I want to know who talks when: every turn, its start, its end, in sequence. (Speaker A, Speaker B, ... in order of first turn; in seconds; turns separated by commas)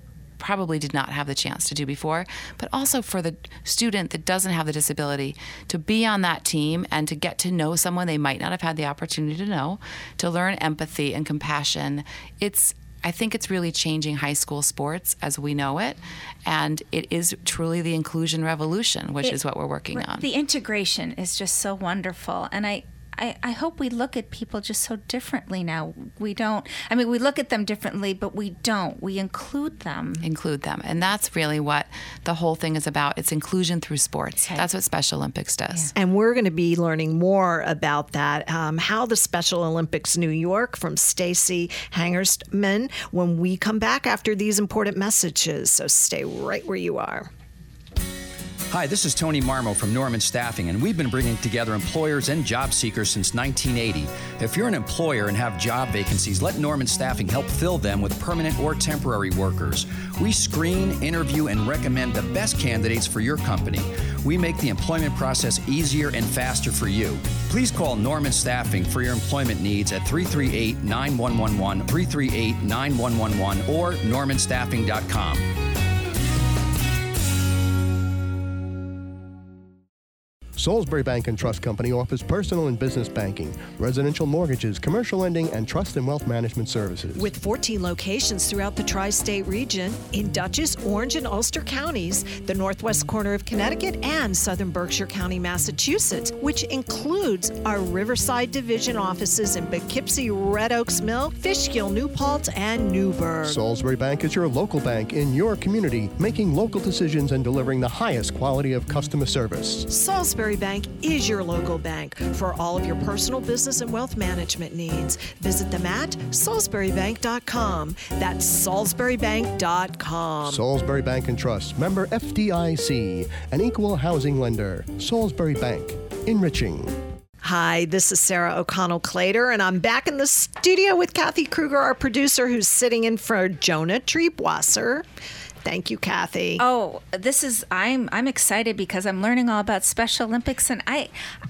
Speaker A: 0.4-20.3, Speaker B: 19.9-30.3, Speaker A: 30.2-35.9, Speaker B: 34.4-34.7, Speaker C: 36.0-47.3, Speaker D: 48.7-75.5, Speaker E: 80.6-87.3, Speaker C: 87.2-103.6, Speaker E: 103.5-109.9, Speaker C: 109.9-120.6, Speaker E: 120.5-127.0, Speaker C: 127.4-135.1, Speaker C: 135.7-136.6, Speaker B: 136.6-141.1